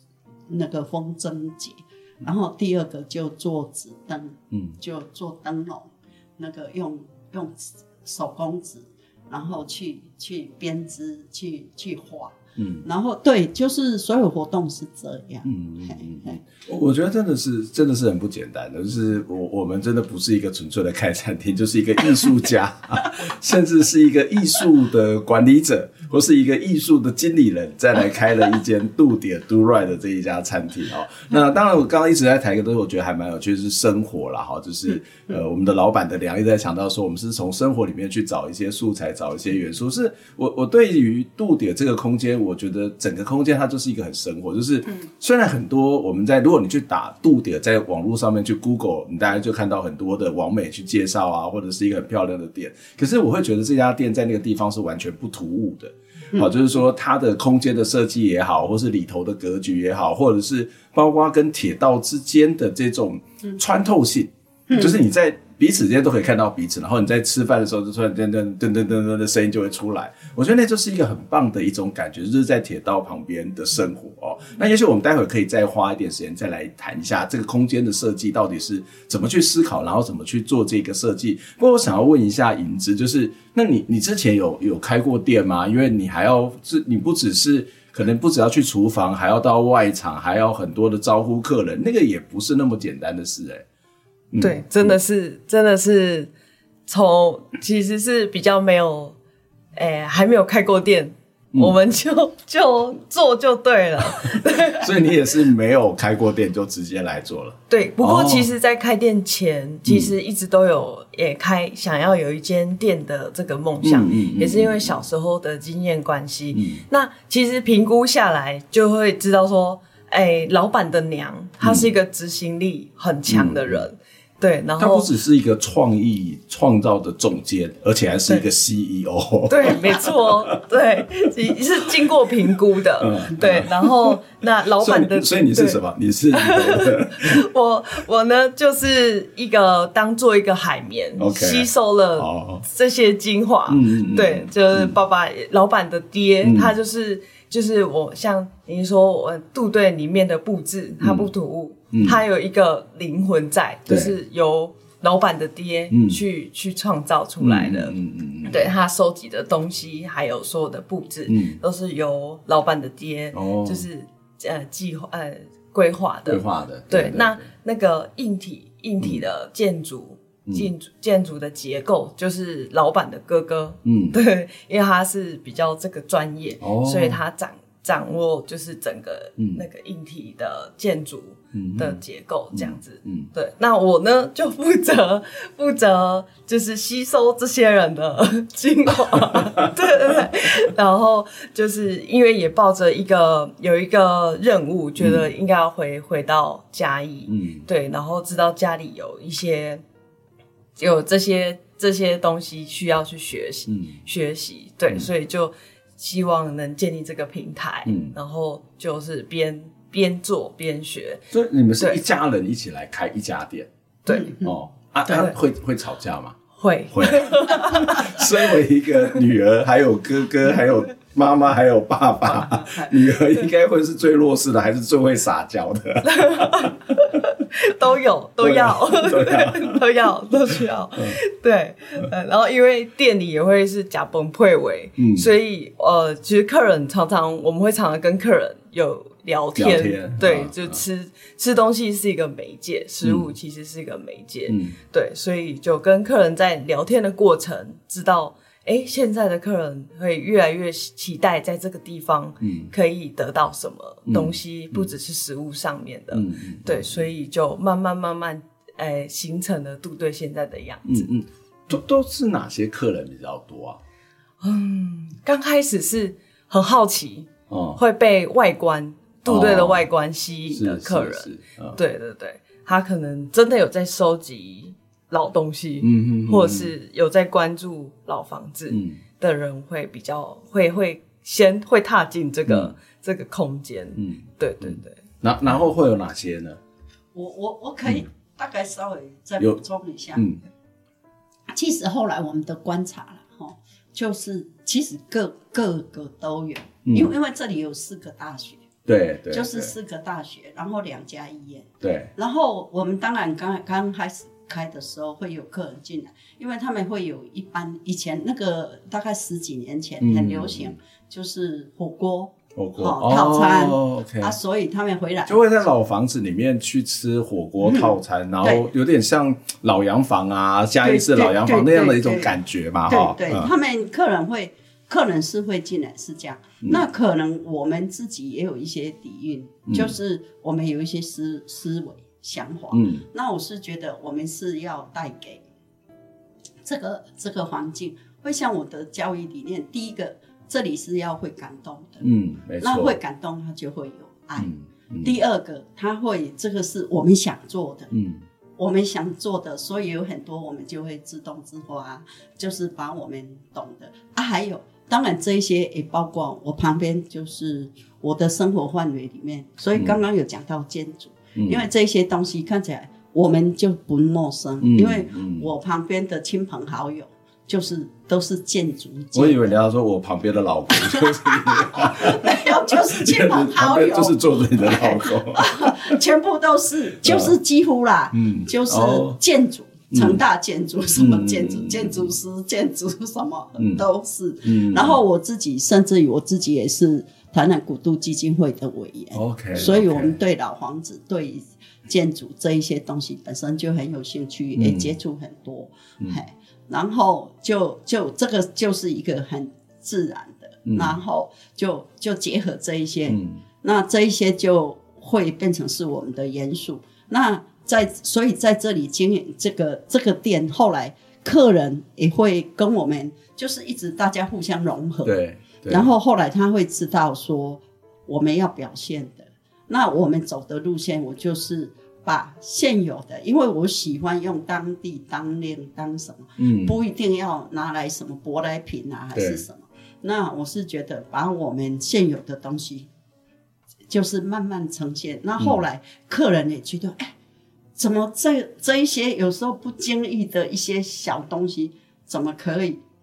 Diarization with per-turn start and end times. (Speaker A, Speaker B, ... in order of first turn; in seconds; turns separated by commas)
Speaker A: 0.5-16.4, Speaker B: 12.6-12.9, Speaker B: 15.4-93.6, Speaker B: 94.3-95.0, Speaker C: 94.4-96.3, Speaker C: 96.9-99.2, Speaker C: 99.7-104.9, Speaker B: 104.8-108.5, Speaker C: 107.7-125.1, Speaker B: 109.9-110.1, Speaker B: 113.8-115.0, Speaker B: 116.5-116.8, Speaker B: 121.6-121.9, Speaker B: 123.3-123.9, Speaker B: 124.8-130.6, Speaker C: 129.5-135.8, Speaker B: 133.0-134.2, Speaker B: 134.8-137.4, Speaker C: 136.3-157.9, Speaker B: 141.2-142.6, Speaker B: 143.7-145.0, Speaker B: 146.4-146.7, Speaker B: 151.0-151.3, Speaker B: 151.9-152.2, Speaker B: 153.9-154.2, Speaker B: 155.9-156.2, Speaker B: 157.4-158.7, Speaker C: 158.4-199.8, Speaker B: 161.3-161.6, Speaker B: 163.3-163.9, Speaker B: 166.3-167.5, Speaker B: 173.8-174.2, Speaker B: 176.6-177.2, Speaker B: 179.4-179.6, Speaker B: 181.5-182.0, Speaker B: 182.5-183.3, Speaker B: 189.3-189.7, Speaker B: 195.0-195.3, Speaker B: 197.3-197.7, Speaker C: 200.8-211.2, Speaker B: 203.7-204.0, Speaker B: 207.9-208.2, Speaker B: 211.3-213.7, Speaker C: 214.1-214.5, Speaker B: 214.4-216.4, Speaker C: 215.1-215.3, Speaker C: 216.6-218.4, Speaker B: 216.9-226.8, Speaker A: 222.4-222.9, Speaker C: 226.1-261.1, Speaker B: 228.4-229.8, Speaker B: 230.9-231.2, Speaker B: 235.0-235.3, Speaker B: 239.6-240.8, Speaker B: 243.0-243.3, Speaker B: 244.5-244.8, Speaker B: 252.4-252.7, Speaker B: 254.1-254.9, Speaker B: 256.1-257.0, Speaker B: 260.9-263.8, Speaker C: 264.4-285.0, Speaker B: 267.5-267.8, Speaker B: 269.2-269.9, Speaker B: 270.5-271.8, Speaker B: 275.8-276.7, Speaker B: 278.7-279.0, Speaker B: 282.5-282.7, Speaker B: 283.9-286.6, Speaker A: 287.1-290.2, Speaker B: 290.1-290.4, Speaker A: 291.5-298.6, Speaker B: 296.9-297.1, Speaker B: 298.9-299.7, Speaker A: 299.3-315.4, Speaker B: 301.8-302.1, Speaker B: 310.0-310.8, Speaker B: 312.6-314.4, Speaker B: 315.2-323.5, Speaker A: 317.6-318.7, Speaker A: 320.8-322.4, Speaker A: 322.9-335.4, Speaker B: 329.7-329.9, Speaker B: 332.7-333.1, Speaker A: 336.6-344.5, Speaker B: 342.0-343.0, Speaker B: 344.4-345.2, Speaker A: 345.0-347.9, Speaker B: 347.9-348.2, Speaker A: 348.6-369.5, Speaker B: 361.4-361.6, Speaker B: 364.6-365.5, Speaker B: 369.1-376.0, Speaker A: 370.7-415.1, Speaker B: 377.0-377.3, Speaker B: 378.1-379.2, Speaker B: 379.9-380.2, Speaker B: 380.9-382.1, Speaker B: 383.6-383.8, Speaker B: 384.4-385.0, Speaker B: 389.1-390.1, Speaker B: 394.6-394.9, Speaker B: 400.6-401.0, Speaker B: 403.1-403.4, Speaker B: 415.0-415.9, Speaker A: 415.7-432.9, Speaker B: 426.4-426.8, Speaker B: 429.1-429.4, Speaker A: 433.9-437.1, Speaker A: 437.8-442.8